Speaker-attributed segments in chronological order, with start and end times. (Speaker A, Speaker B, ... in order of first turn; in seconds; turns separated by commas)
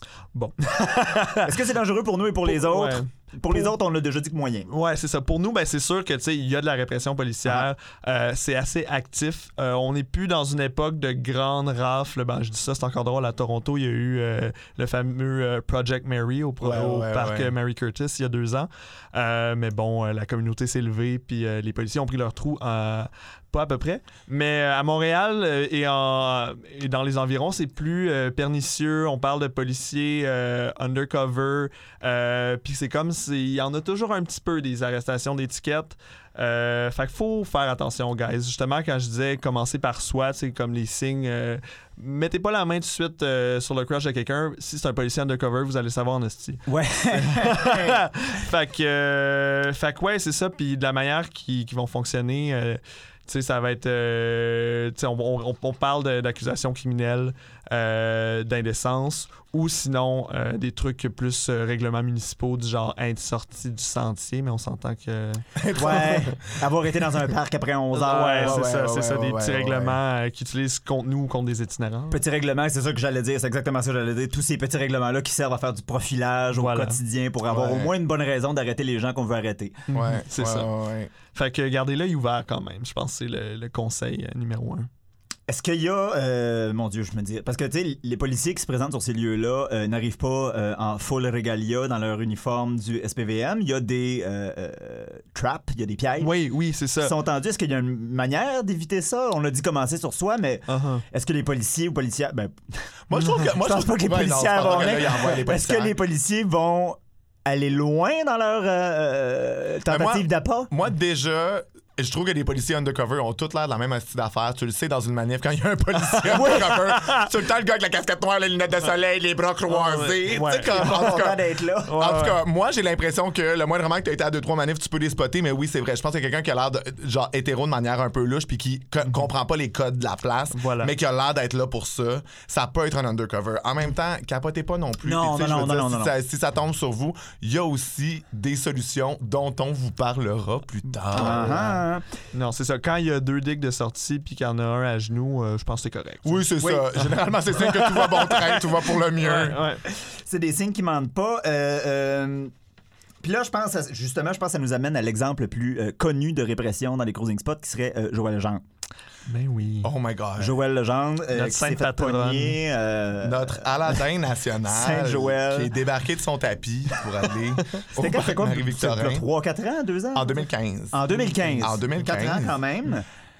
Speaker A: 0.3-1.6, Speaker B: 1.4-4.7, Speaker A: 2.5-3.7, Speaker A: 4.7-66.2, Speaker C: 16.6-17.5, Speaker B: 46.7-48.0, Speaker C: 65.6-66.4, Speaker B: 65.8-68.7, Speaker A: 67.9-72.2, Speaker C: 68.4-70.0, Speaker B: 72.1-79.8, Speaker A: 76.5-77.0, Speaker C: 77.5-77.9, Speaker A: 79.9-80.7, Speaker C: 79.9-81.1, Speaker A: 81.3-84.9, Speaker B: 85.5-96.3, Speaker A: 96.2-97.2, Speaker B: 97.0-102.6, Speaker A: 100.7-101.0, Speaker C: 103.1-106.0, Speaker B: 103.2-110.7, Speaker C: 109.9-141.7, Speaker A: 116.2-117.3, Speaker B: 116.4-116.7, Speaker A: 119.7-121.2, Speaker B: 120.6-122.0, Speaker A: 121.9-122.4, Speaker A: 130.5-130.9, Speaker B: 135.0-136.1, Speaker B: 141.1-142.1, Speaker A: 141.2-141.8, Speaker A: 142.3-146.5, Speaker C: 146.2-149.6, Speaker A: 147.6-149.8, Speaker B: 149.9-152.5, Speaker B: 153.2-158.6, Speaker A: 159.3-159.9, Speaker C: 159.8-160.6, Speaker B: 160.4-164.0, Speaker A: 161.3-162.6, Speaker C: 163.2-169.2, Speaker B: 164.7-165.7, Speaker B: 167.9-170.4, Speaker C: 170.2-172.6, Speaker B: 170.9-173.1